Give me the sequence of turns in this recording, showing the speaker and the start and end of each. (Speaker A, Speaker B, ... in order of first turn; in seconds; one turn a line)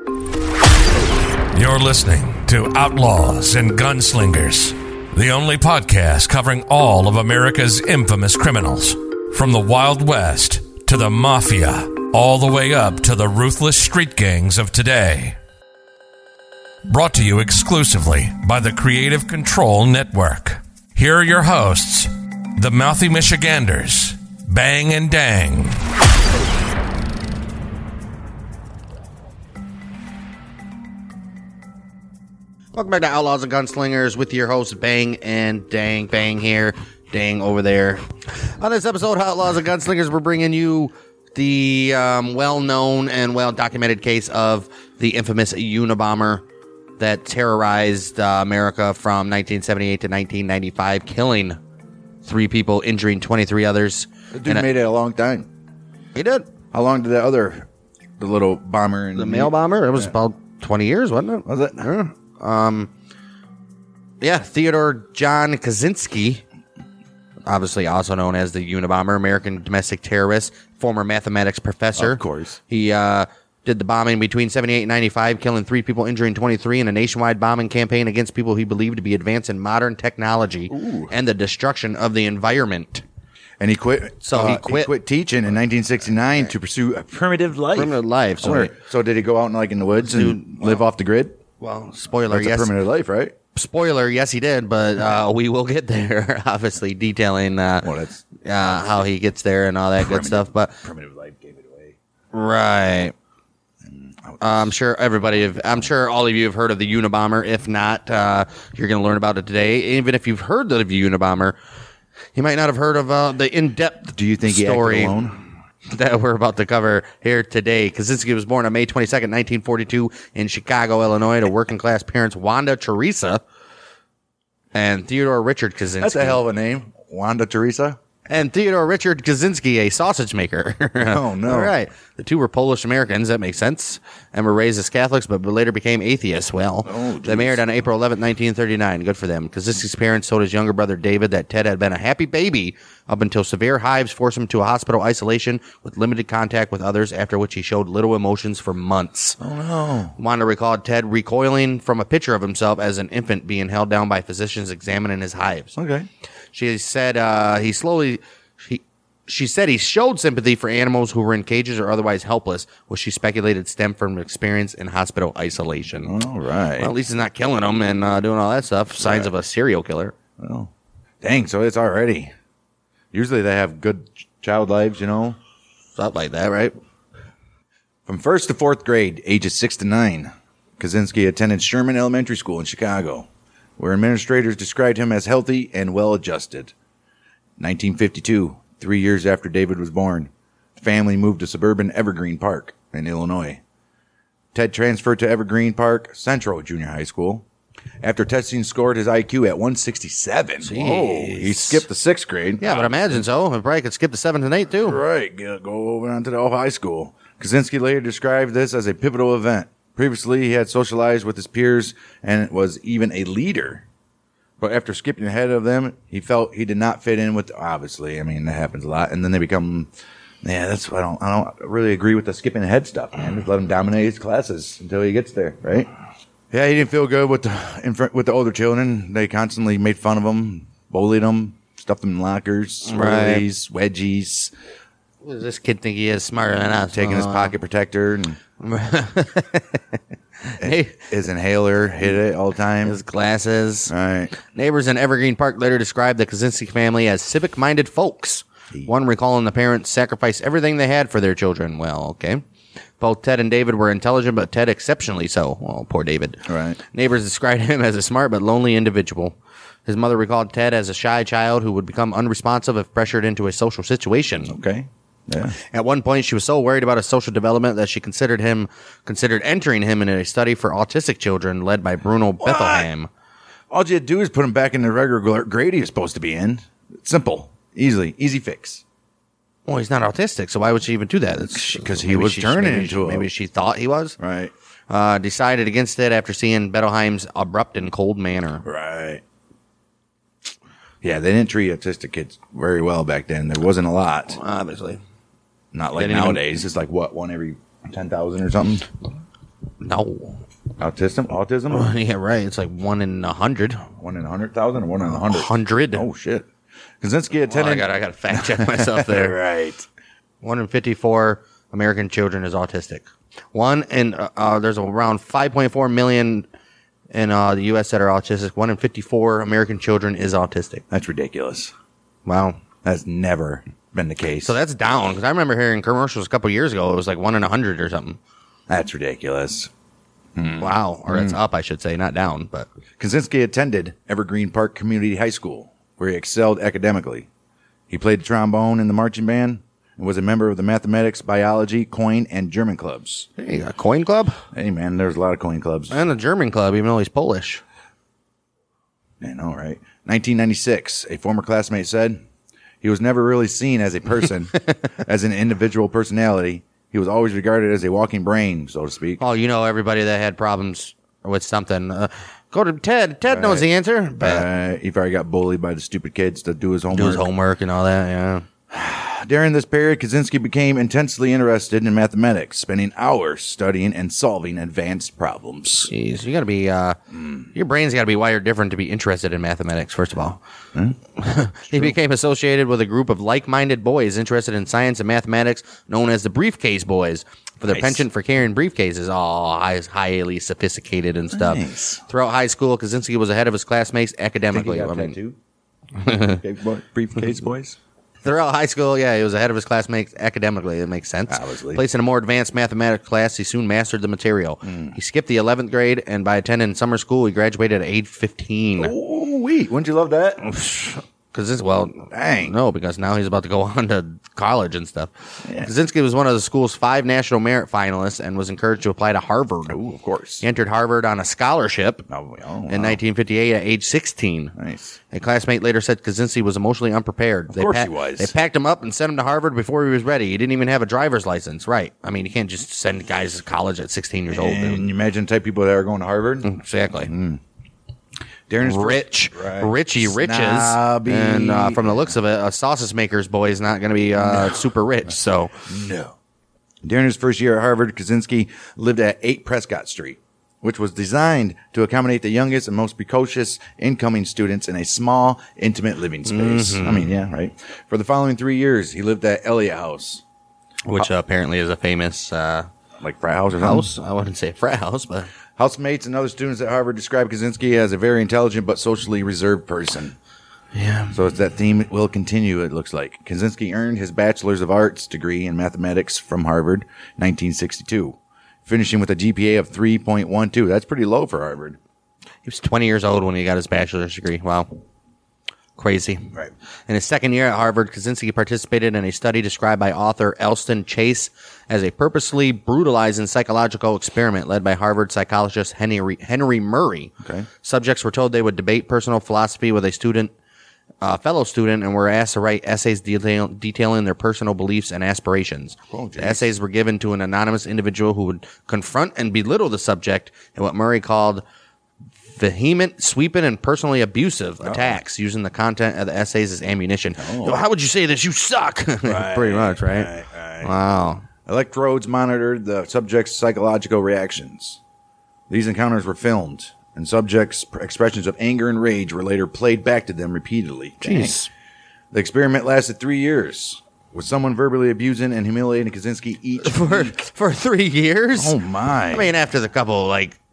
Speaker A: 1.5-15.4
Speaker A: 16.9-25.9
Speaker B: 32.7-46.5
Speaker B: 47.0-51.6
Speaker B: 52.2-54.7
Speaker C: 54.3-55.5
Speaker B: 56.1-56.5
Speaker C: 56.7-60.1
Speaker B: 59.1-62.9
Speaker C: 61.5-61.9
Speaker B: 64.2-66.4
Speaker B: 67.5-83.0
Speaker C: 72.0-72.6
Speaker C: 80.7-81.1
Speaker C: 83.6-91.4
Speaker B: 84.2-84.9
Speaker B: 87.8-88.7
Speaker B: 90.0-90.8
Speaker B: 91.6-92.7
Speaker C: 92.3-93.3
Speaker B: 93.5-100.8
Speaker C: 97.8-98.2
Speaker C: 100.0-102.0
Speaker B: 102.3-103.1
Speaker C: 103.8-104.7
Speaker B: 104.4-111.6
Speaker B: 112.3-115.2
Speaker C: 114.1-115.4
Speaker B: 115.9-123.4
Speaker B: 124.7-126.4
Speaker C: 126.0-128.0
Speaker B: 128.3-149.4
Speaker C: 131.0-131.8
Speaker C: 136.8-137.7
Speaker C: 149.4-150.2
Speaker B: 150.2-155.7
Speaker C: 155.8-156.1
Speaker B: 156.5-166.1
Speaker C: 166.0-166.9
Speaker B: 166.8-170.1
Speaker C: 169.0-169.3
Speaker C: 170.4-170.7
Speaker C: 171.2-172.3
Speaker C: 173.1-175.4
Speaker B: 176.0-176.8
Speaker C: 178.1-186.7
Speaker C: 187.6-193.6
Speaker C: 194.5-197.4
Speaker C: 198.0-203.2
Speaker B: 200.6-201.8
Speaker B: 202.6-205.0
Speaker C: 204.7-213.8
Speaker C: 214.6-219.9
Speaker C: 220.4-225.9
Speaker C: 226.5-234.5
Speaker B: 232.8-233.5
Speaker B: 235.2-237.6
Speaker C: 236.9-238.4
Speaker B: 238.6-239.8
Speaker B: 240.5-241.0
Speaker C: 240.6-243.0
Speaker B: 242.8-252.4
Speaker C: 243.9-244.3
Speaker B: 253.0-264.5
Speaker C: 256.5-256.8
Speaker C: 264.5-265.6
Speaker B: 265.7-273.1
Speaker C: 272.4-272.9
Speaker C: 273.7-278.8
Speaker B: 279.7-284.2
Speaker C: 281.5-283.3
Speaker C: 284.2-284.5
Speaker B: 284.9-288.6
Speaker C: 288.6-289.2
Speaker C: 291.0-294.4
Speaker B: 294.3-295.0
Speaker C: 295.7-298.9
Speaker B: 296.0-296.4
Speaker B: 299.8-300.4
Speaker C: 300.8-301.9
Speaker B: 301.7-303.9
Speaker C: 304.0-306.5
Speaker B: 305.2-306.1
Speaker C: 307.0-309.9
Speaker B: 307.5-309.4
Speaker B: 310.4-316.5
Speaker B: 317.1-320.8
Speaker C: 320.9-321.7
Speaker B: 322.3-322.6
Speaker C: 322.8-324.6
Speaker B: 324.4-328.2
Speaker C: 328.7-329.7
Speaker C: 330.4-331.4
Speaker B: 330.6-332.7
Speaker C: 333.0-337.3
Speaker C: 337.9-343.3
Speaker B: 343.4-344.4
Speaker C: 344.5-346.0
Speaker B: 345.9-347.6
Speaker C: 349.2-352.2
Speaker C: 352.8-359.2
Speaker B: 359.2-364.5
Speaker C: 363.3-363.7
Speaker C: 364.2-367.2
Speaker B: 366.9-368.5
Speaker C: 368.7-375.9
Speaker B: 375.9-377.0
Speaker C: 377.1-377.4
Speaker B: 377.5-380.4
Speaker B: 381.2-395.2
Speaker C: 381.7-382.0
Speaker C: 387.7-388.1
Speaker C: 391.3-392.0
Speaker C: 394.5-395.4
Speaker C: 396.1-397.8
Speaker B: 398.2-408.9
Speaker C: 401.3-401.8
Speaker C: 404.6-405.0
Speaker C: 408.8-410.5
Speaker B: 410.5-419.8
Speaker C: 412.1-412.6
Speaker C: 415.4-415.7
Speaker C: 419.7-420.4
Speaker B: 420.4-422.1
Speaker C: 422.1-423.0
Speaker B: 422.7-424.5
Speaker C: 424.6-425.0
Speaker B: 425.1-434.9
Speaker C: 427.5-428.3
Speaker C: 434.3-436.5
Speaker B: 436.4-437.1
Speaker C: 437.1-437.4
Speaker C: 438.5-442.1
Speaker B: 438.6-445.6
Speaker C: 444.2-444.6
Speaker C: 445.6-446.1
Speaker C: 446.8-460.2
Speaker B: 456.3-457.1
Speaker B: 460.9-462.7
Speaker C: 463.0-463.9
Speaker B: 463.6-465.3
Speaker C: 465.6-470.2
Speaker B: 470.8-471.2
Speaker C: 471.1-481.8
Speaker B: 482.4-484.7
Speaker B: 485.8-486.3
Speaker B: 486.9-500.3
Speaker C: 497.2-497.5
Speaker B: 501.0-511.4
Speaker C: 505.9-506.5
Speaker B: 512.4-520.1
Speaker C: 514.6-515.0
Speaker C: 517.2-517.6
Speaker C: 519.0-520.7
Speaker B: 520.6-521.2
Speaker C: 521.5-524.8
Speaker C: 525.5-531.5
Speaker B: 531.0-531.5
Speaker C: 532.1-537.2
Speaker B: 536.6-540.4
Speaker C: 538.4-539.3